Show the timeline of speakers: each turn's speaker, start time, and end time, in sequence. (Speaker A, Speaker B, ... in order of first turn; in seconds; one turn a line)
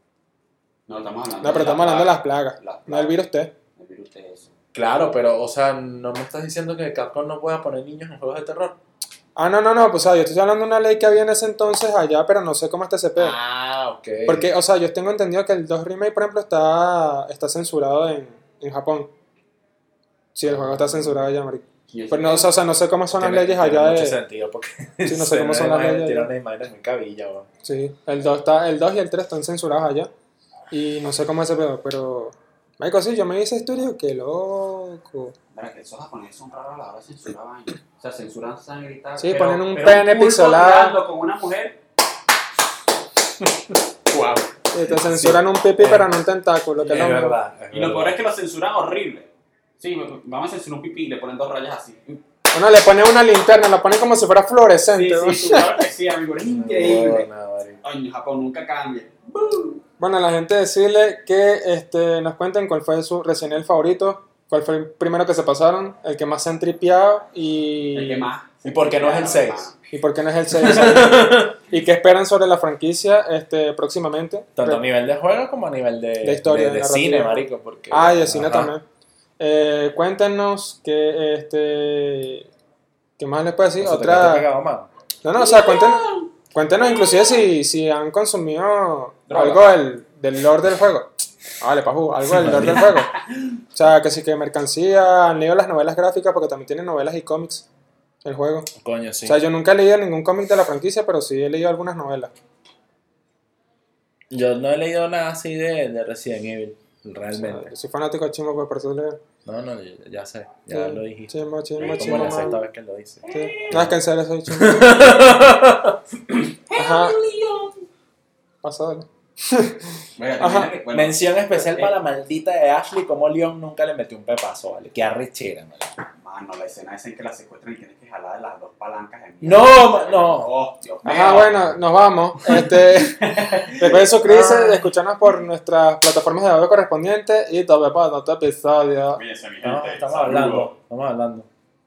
Speaker A: 0.9-3.2
Speaker B: 1.4-3.5
Speaker A: 3.8-4.5
Speaker C: 4.7-8.8
Speaker B: 9.3-13.3
Speaker C: 13.2-14.5
Speaker B: 14.3-19.1
Speaker B: 20.3-24.2
Speaker C: 20.4-21.3
Speaker A: 21.9-22.5
Speaker C: 23.1-27.5
Speaker B: 25.0-26.3
Speaker B: 27.6-30.1
Speaker B: 30.7-35.3
Speaker A: 35.5-41.8
Speaker B: 39.2-41.0
Speaker C: 44.1-46.1
Speaker B: 44.7-47.4
Speaker C: 46.8-48.2
Speaker A: 47.7-52.2
Speaker B: 52.5-55.8
Speaker A: 54.9-57.3
Speaker C: 56.4-57.8
Speaker A: 57.8-59.8
Speaker B: 60.0-68.3
Speaker A: 67.9-69.9
Speaker C: 68.6-69.7
Speaker B: 69.9-74.8
Speaker C: 70.5-71.5
Speaker C: 74.6-78.7
Speaker B: 76.2-78.8
Speaker B: 79.4-82.5
Speaker B: 83.2-84.5
Speaker C: 83.8-84.9
Speaker B: 85.2-93.1
Speaker A: 85.3-86.3
Speaker A: 86.8-87.4
Speaker A: 89.3-89.8
Speaker C: 92.3-93.0
Speaker A: 92.6-93.6
Speaker B: 93.7-97.7
Speaker B: 98.2-98.7
Speaker C: 98.8-99.4
Speaker B: 99.2-102.3
Speaker C: 104.3-107.7
Speaker B: 107.3-109.2
Speaker C: 109.4-114.0
Speaker B: 110.7-112.6
Speaker A: 113.2-113.8
Speaker B: 113.3-115.2
Speaker C: 114.5-116.0
Speaker A: 116.3-117.8
Speaker B: 116.8-117.2
Speaker B: 118.6-120.7
Speaker A: 120.2-121.9
Speaker C: 120.9-126.0
Speaker A: 126.2-131.7
Speaker C: 129.4-130.5
Speaker B: 131.0-139.2
Speaker A: 132.4-134.2
Speaker C: 134.2-134.9
Speaker A: 139.1-140.7
Speaker C: 139.6-141.5